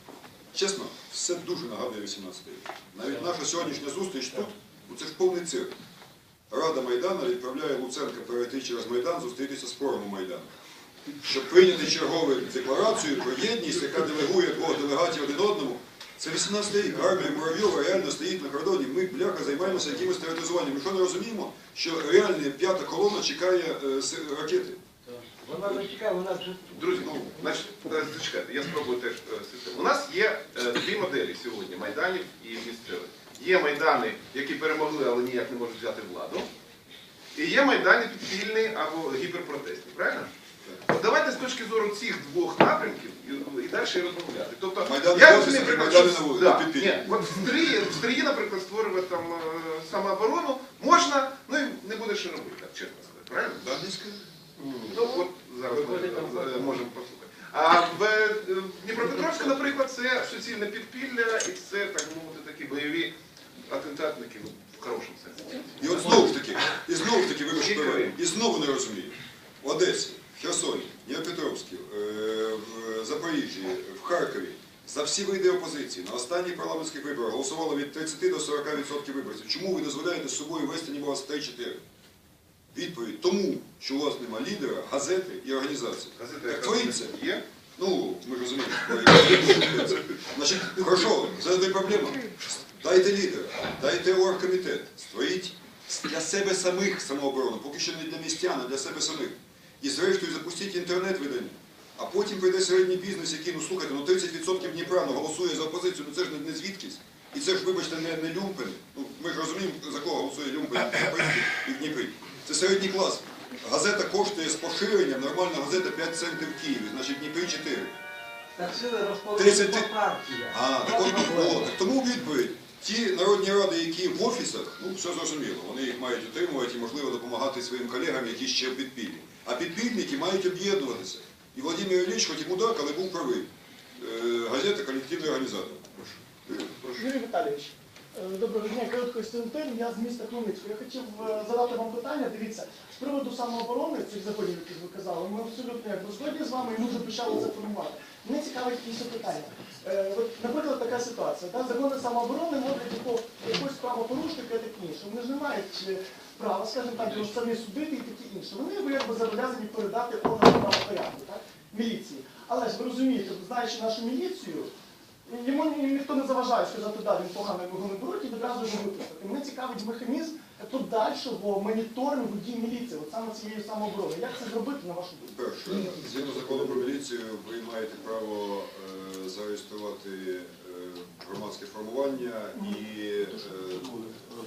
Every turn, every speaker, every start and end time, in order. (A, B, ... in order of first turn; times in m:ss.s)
0:00.5-0:05.7 A
0:06.5-0:10.5 A
0:11.2-0:24.8 A
0:25.2-0:26.8 B
0:26.7-0:36.5 C
0:26.8-0:27.4 A
0:37.3-0:40.3 C
0:40.9-0:53.9 C
0:44.8-0:47.0 A
0:53.7-0:54.2 A
0:54.9-1:03.1 C
0:55.8-0:56.5 B
1:03.7-1:06.3 C
1:05.8-1:21.8 A
1:07.5-1:08.2 C
1:22.7-1:27.2 A
1:26.2-1:27.4 C
1:27.8-1:57.9 A
1:58.6-2:01.7 B
1:59.4-1:59.9 A
2:00.5-2:17.0 A
2:16.8-2:44.7 D
2:45.3-2:55.4 D
2:55.3-3:04.1 A
2:55.7-2:56.8 B